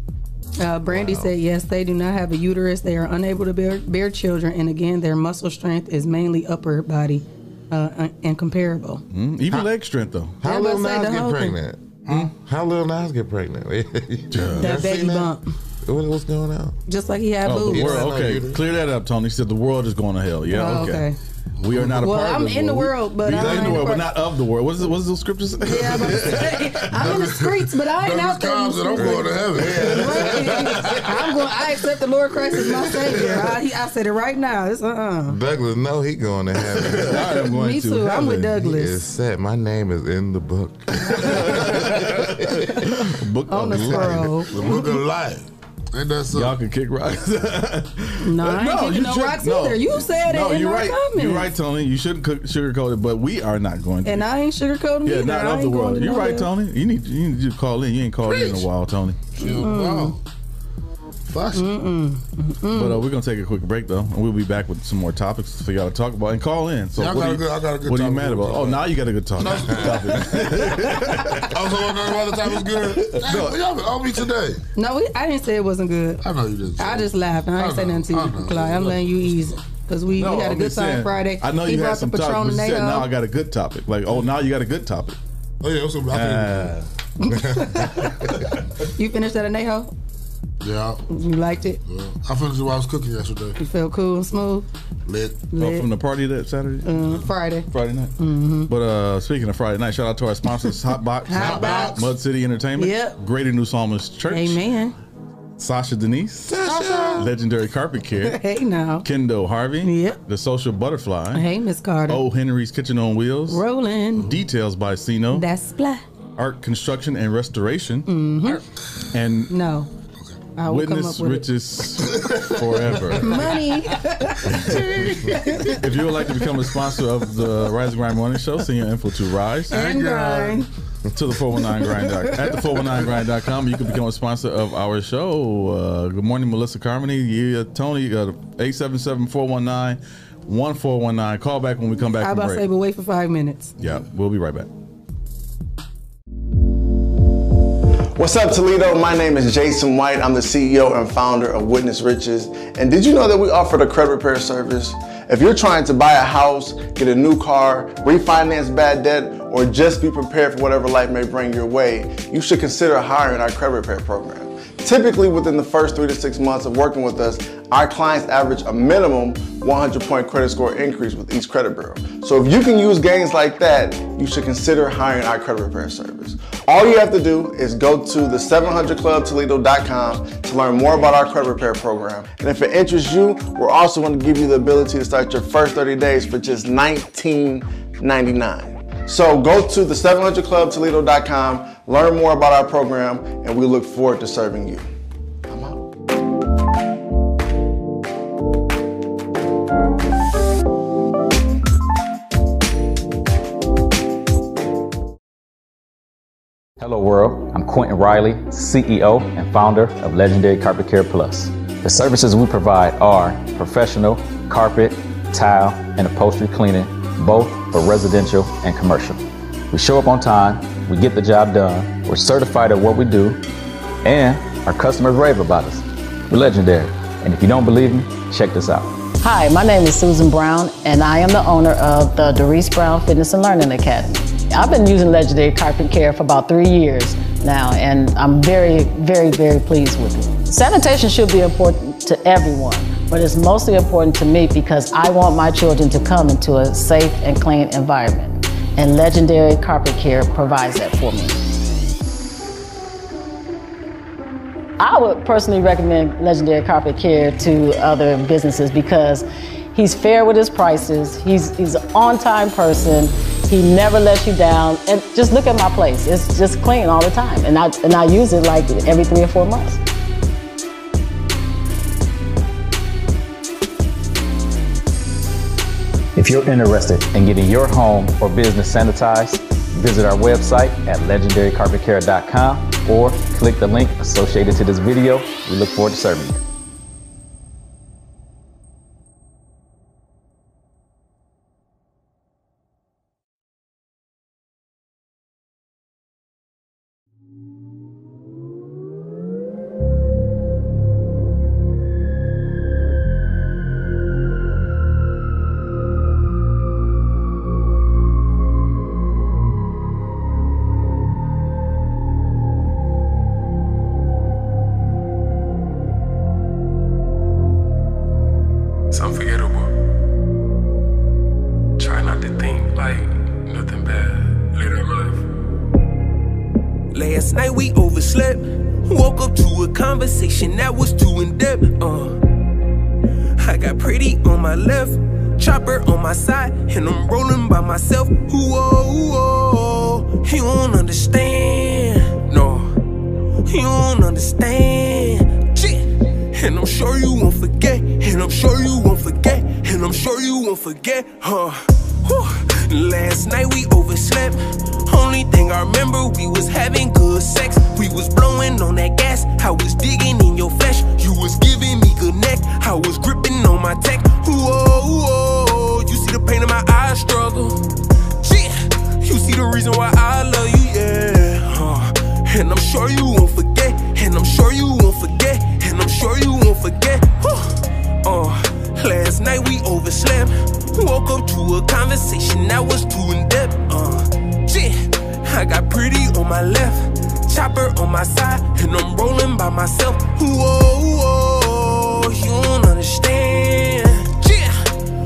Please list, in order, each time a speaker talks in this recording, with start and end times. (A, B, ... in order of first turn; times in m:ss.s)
0:00.6-0:09.0 A
0:00.9-0:01.3 B
0:09.1-0:10.4 C
0:10.4-0:16.8 B
0:10.4-0:11.6 A
0:14.3-0:14.8 C
0:14.6-0:15.5 A
0:16.9-0:18.1 A
0:17.4-0:21.1 C
0:17.7-0:18.6 B
0:20.5-0:21.2 A
0:21.6-0:27.1 C
0:21.6-0:21.9 D
0:21.8-0:24.1 A
0:25.6-0:35.4 A
0:26.9-0:31.0 D
0:28.9-0:30.6 B
0:35.3-0:37.3 B
0:36.8-0:38.6 C
0:37.4-0:39.0 A
0:38.6-0:42.9 B
0:41.1-0:44.4 C
0:43.5-0:44.8 A
0:44.5-0:46.6 D
0:46.3-0:54.3 C
0:48.2-0:51.5 A
0:54.0-0:56.5 A
0:55.0-0:59.2 C
0:58.2-0:58.7 D
0:59.3-1:00.2 D
0:59.4-1:00.2 A
1:01.3-1:01.7 D
1:01.5-1:03.0 A
1:02.7-1:11.5 C
1:06.9-1:10.7 D
1:09.4-1:10.3 B
1:11.4-1:14.6 D
1:12.9-1:13.6 C
1:14.8-1:16.2 A
1:16.2-1:19.6 D
1:16.8-1:23.1 A
1:20.2-1:25.2 C
1:25.6-1:26.8 D
1:26.1-1:26.9 C
1:27.2-1:28.2 A
1:27.4-1:27.8 B
1:28.9-1:29.9 A
1:30.6-1:31.0 D
1:31.1-1:31.8 A
1:31.8-1:33.6 D
1:33.6-1:34.7 A
1:35.0-1:35.4 D
1:35.5-1:35.9 A
1:35.6-1:37.2 C
1:36.8-1:37.7 A
1:37.7-1:38.1 C
1:38.2-1:38.7 A
1:38.7-1:44.6 C
1:41.2-1:42.0 A
1:41.4-1:41.9 D
1:42.8-1:43.2 A
1:44.3-1:44.9 A
1:45.6-1:46.6 C
1:46.4-1:47.3 B
1:46.7-1:47.1 A
1:47.2-1:48.4 C
1:48.2-1:49.0 A
1:49.0-1:51.4 C
1:49.8-1:50.2 A
1:51.3-1:52.2 A
1:52.1-1:53.6 C
1:53.5-1:54.4 A
1:54.2-1:55.4 C
1:55.3-1:56.0 A
1:56.4-1:58.1 C
1:58.1-1:58.6 A
1:59.1-1:59.5 C
1:59.5-1:59.9 A
2:00.6-2:01.5 A
2:00.6-2:03.5 C
2:02.0-2:02.8 D
2:03.1-2:05.8 A
2:04.4-2:09.8 C
2:09.7-2:10.7 A
2:09.7-2:10.7 D
2:11.1-2:22.6 C
2:11.6-2:12.5 A
2:22.2-2:23.8 A
2:23.8-2:24.7 C
2:28.2-3:14.9 E
3:15.5-3:15.7 E
3:26.8-3:43.4 F
3:44.0-3:49.0 F
3:49.2-4:11.4 G
4:14.8-4:29.8 G
4:36.1-4:46.4 F
5:18.9-5:19.7 H
5:21.8-5:25.2 H
5:26.9-5:32.2 I
5:33.4-5:42.7 I
5:43.5-6:07.6 I
6:08.2-6:34.7 I